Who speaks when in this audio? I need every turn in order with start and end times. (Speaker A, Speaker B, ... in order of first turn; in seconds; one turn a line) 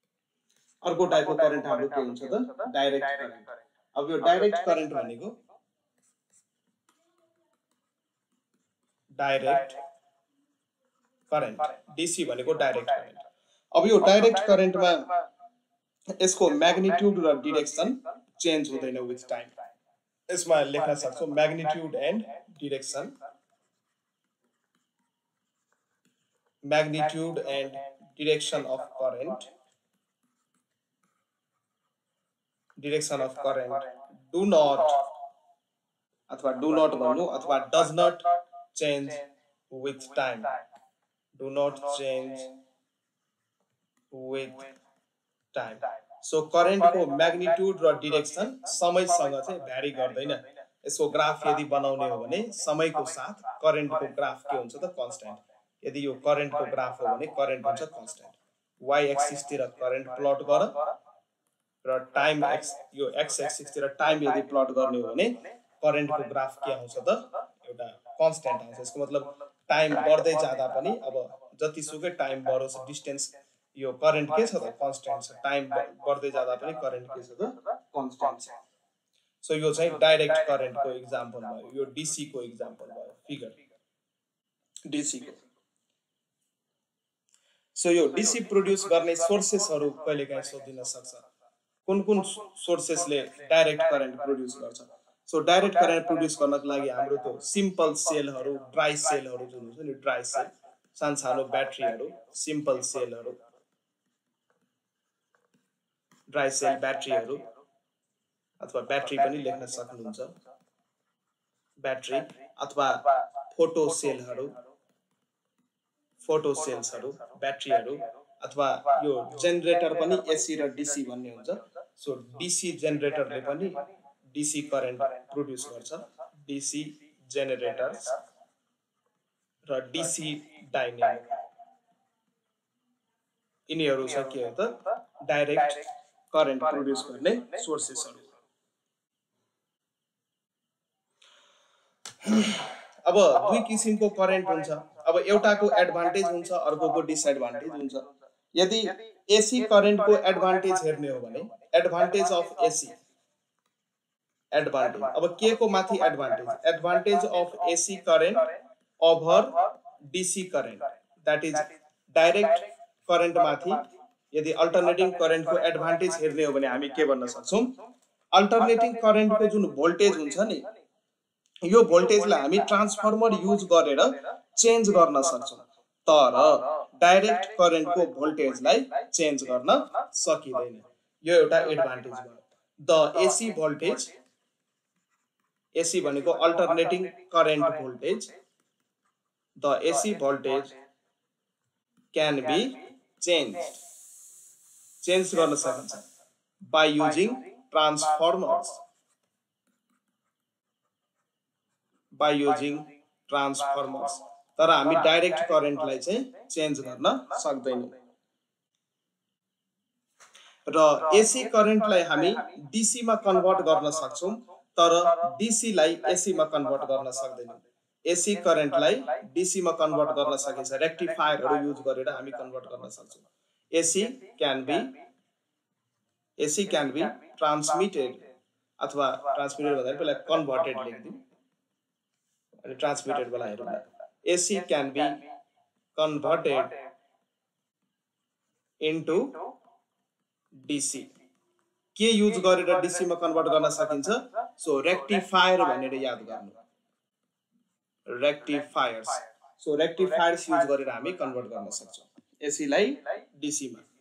Speaker A: 0.8-5.3
Speaker A: 9.2-9.8
Speaker A: 11.3-13.2
Speaker A: 13.7-15.1
Speaker A: 16.2-19.5
Speaker A: 20.3-23.2
Speaker A: 26.6-29.5
Speaker A: 32.8-35.1
Speaker A: 36.3-40.5
Speaker A: 41.4-42.5
Speaker A: 44.1-44.7
Speaker A: 45.5-60.8
Speaker A: 61.9-78.5
Speaker A: 79.4-83.6
Speaker A: 84.9-85.4
Speaker A: 87.8-91.2
Speaker A: 91.9-103.4
Speaker A: 106.3-107.5
Speaker A: 108.6-110.3
Speaker A: 111.8-114.6
Speaker A: 116.2-128.2
Speaker A: 129.7-131.4
Speaker A: 133.7-138.3
Speaker A: 142.2-153.0
Speaker A: 154.5-158.5
Speaker A: 159.0-159.6
Speaker A: 160.1-167.7
Speaker A: 168.3-170.7
Speaker A: 171.7-184.1
Speaker A: 185.8-188.3
Speaker A: 189.6-190.7
Speaker A: 192.1-193.8
Speaker A: 195.0-196.0
Speaker A: 196.7-198.8
Speaker A: 202.1-207.9
Speaker A: 210.7-224.9
Speaker A: 226.4-228.2
Speaker A: 228.8-231.2
Speaker A: 232.6-235.2
Speaker A: 236.0-236.7
Speaker A: 238.8-239.3
Speaker A: 240.6-241.1
Speaker A: 241.9-246.6
Speaker A: 248.1-253.8